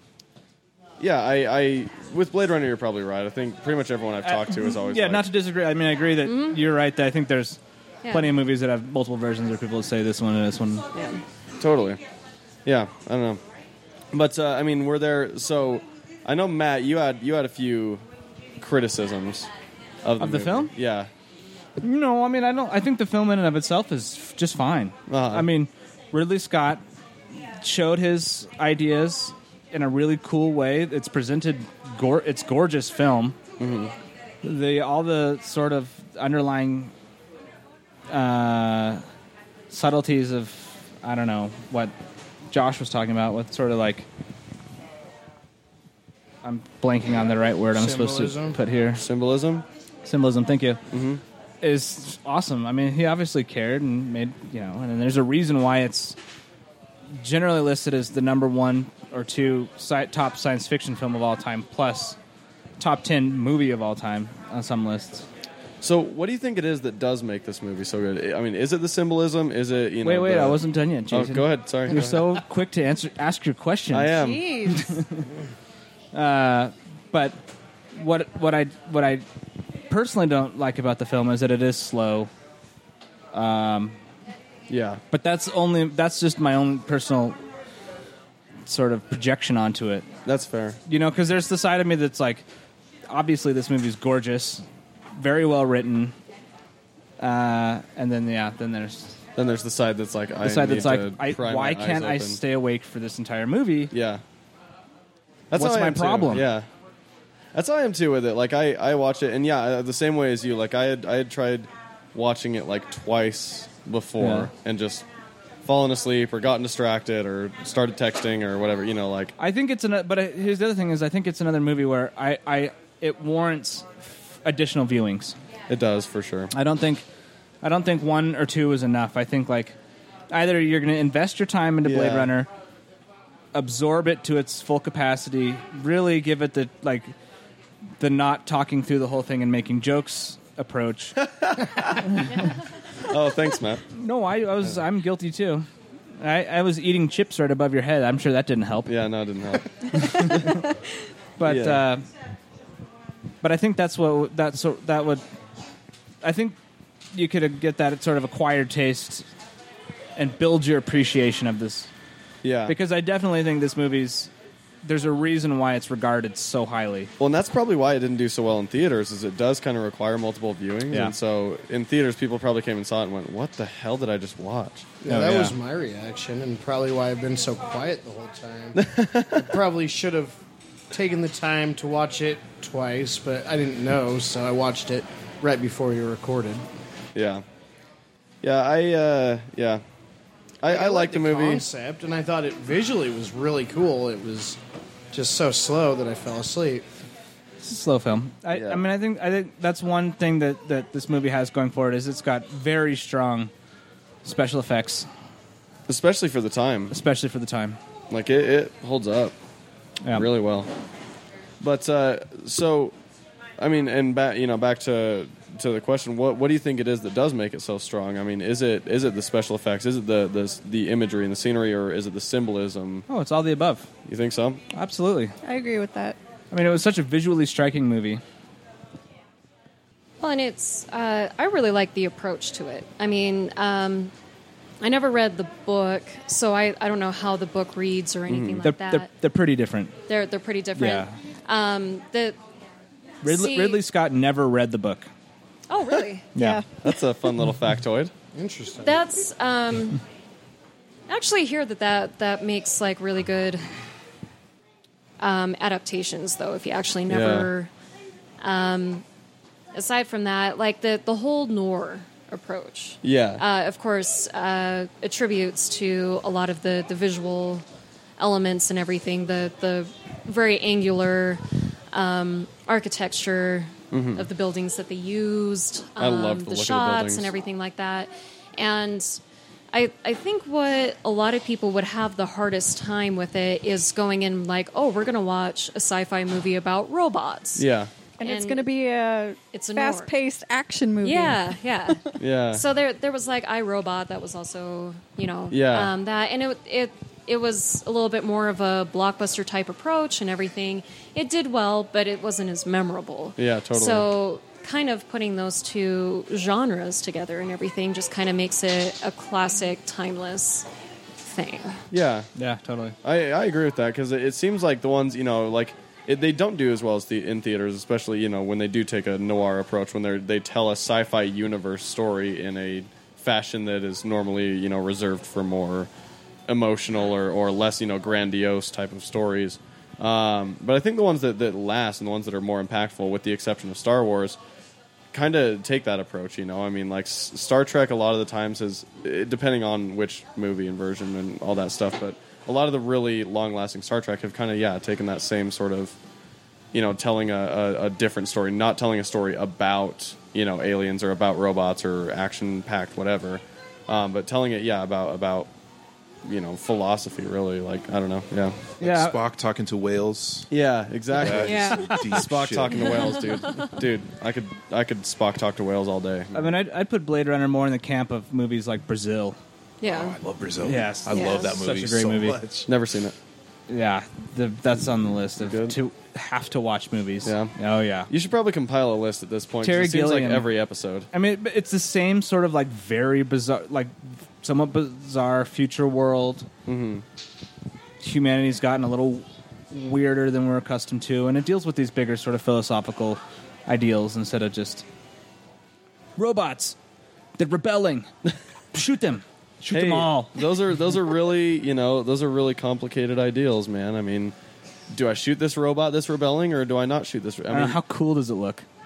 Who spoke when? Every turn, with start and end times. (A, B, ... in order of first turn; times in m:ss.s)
0:01.0-0:05.2 A
0:04.2-0:07.6 B
0:06.2-0:06.6 C
0:08.0-0:08.3 C
0:08.1-0:10.8 B
0:10.9-0:11.2 C
0:11.6-0:12.0 A
0:12.6-0:13.4 A
0:14.1-0:18.0 A
0:18.6-0:19.5 A
0:20.0-0:21.1 A
0:20.2-0:20.7 B
0:21.8-0:26.8 B
0:25.1-0:25.5 A
0:27.6-0:33.4 B
0:33.6-0:33.9 A
0:34.4-0:36.9 B
0:38.1-0:39.0 B
0:39.7-0:41.9 B
0:42.5-0:44.1 B
0:46.4-0:49.0 B
0:47.7-0:48.6 D
0:49.0-0:49.6 A
0:50.0-0:50.8 B
0:50.9-0:51.2 A
0:51.6-0:56.2 B
0:57.2-1:02.2 B
1:02.8-1:05.2 B
1:05.8-1:12.4 A
1:10.0-1:15.3 B
1:13.9-1:14.5 A
1:14.1-1:14.9 E
1:16.1-1:17.4 B
1:17.9-1:19.2 B
1:19.9-1:22.3 B
1:23.3-1:24.0 B
1:24.7-1:25.0 A
1:25.1-1:27.4 B
1:28.6-1:30.1 B
1:30.2-1:30.8 A
1:30.9-1:32.4 B
1:33.1-1:34.6 B
1:35.2-1:36.1 B
1:37.2-1:39.2 B
1:39.4-1:42.4 A
1:40.4-1:43.9 B
1:43.9-1:44.2 A
1:45.5-1:46.7 A
1:45.5-1:46.5 B
1:47.5-1:55.0 A
1:54.2-1:54.5 B
1:55.6-1:59.3 A
1:59.4-2:05.4 B
2:05.7-2:06.5 A
2:06.5-2:07.0 B
2:07.6-2:09.8 B
2:10.3-2:12.5 B
2:11.8-2:12.3 A
2:13.5-2:17.1 B
2:18.0-2:21.2 B
2:21.2-2:22.4 A
2:23.0-2:23.8 A
2:23.9-2:25.7 B
2:26.2-2:28.9 B
2:28.8-2:30.7 A
2:29.9-2:30.6 B
2:31.4-2:32.0 B
2:31.4-2:31.8 A
2:33.4-2:35.2 B
2:36.2-2:36.6 B
2:37.1-2:39.3 B
2:40.2-2:41.9 B
2:42.4-2:42.8 A
2:42.7-2:44.3 B
2:44.8-2:47.1 B
2:47.2-2:54.9 A
2:50.9-2:51.1 B
2:55.0-2:58.8 D
2:55.0-2:55.6 B
2:58.7-2:59.6 A
2:59.3-3:00.4 D
3:00.9-3:06.6 D
3:07.1-3:07.4 A
3:08.4-3:09.8 A
3:10.6-3:11.6 A
3:10.6-3:14.6 D
3:15.1-3:16.9 D
3:17.6-3:23.5 B
3:18.5-3:18.8 A
3:24.2-3:25.1 B
3:25.9-3:26.9 A
3:26.9-3:27.8 B
3:28.1-3:29.3 A
3:30.0-3:30.3 B
3:30.1-3:30.7 A
3:31.6-3:32.9 A
3:33.6-3:43.0 A
3:43.1-3:43.9 B
3:44.0-3:44.6 A
3:44.7-3:45.3 B
3:45.4-3:46.2 E
3:46.5-3:48.2 B
3:50.2-3:54.1 C
3:54.8-3:59.1 C
3:58.3-3:58.6 A
3:58.6-3:59.9 B
4:00.1-4:02.4 C
4:00.8-4:01.1 B
4:03.2-4:03.8 C
4:03.2-4:05.1 B
4:05.7-4:06.3 C
4:06.3-4:06.6 B
4:06.3-4:06.6 E
4:06.8-4:08.1 A
4:08.3-4:09.0 D
4:08.8-4:10.0 C
4:11.1-4:13.7 C
4:15.2-4:17.7 C
4:17.1-4:17.5 A
4:18.4-4:19.0 C
4:19.7-4:27.6 C
4:23.0-4:23.4 A
4:28.2-4:39.2 C
4:33.9-4:34.3 A
4:36.0-4:37.3 A
4:39.7-4:47.7 C
4:47.6-4:47.9 A
4:48.2-4:52.1 E
4:48.2-4:48.7 C
4:49.5-4:50.1 C
4:51.0-5:10.7 C
4:52.2-4:52.6 A
4:55.5-4:55.9 A
5:03.4-5:04.1 A
5:11.2-5:11.8 C
5:11.9-5:12.3 A
5:12.4-5:13.0 B
5:13.0-5:25.9 A
5:26.5-5:34.4 A
5:35.1-5:46.0 A
5:46.7-5:55.5 A
5:56.2-5:58.7 A
5:58.8-5:59.2 B
5:58.8-6:00.5 F
6:00.5-6:06.6 A
6:01.1-6:03.3 F
6:01.2-6:02.1 C
6:02.7-6:03.8 C
6:06.3-6:09.4 B
6:09.8-6:10.2 C
6:09.9-6:12.7 F
6:10.6-6:12.4 B
6:11.1-6:11.6 C
6:12.6-6:13.2 A
6:13.7-6:18.1 B
6:15.4-6:15.8 A
6:17.2-6:17.5 A
6:18.1-6:21.1 A
6:19.6-6:20.5 B
6:21.1-6:26.5 B
6:26.6-6:27.0 A
6:28.0-6:34.8 B
6:36.2-6:36.8 B
6:37.4-6:38.1 B
6:38.7-6:40.4 B
6:39.7-6:44.3 A
6:44.9-6:47.8 A
6:47.5-6:48.6 B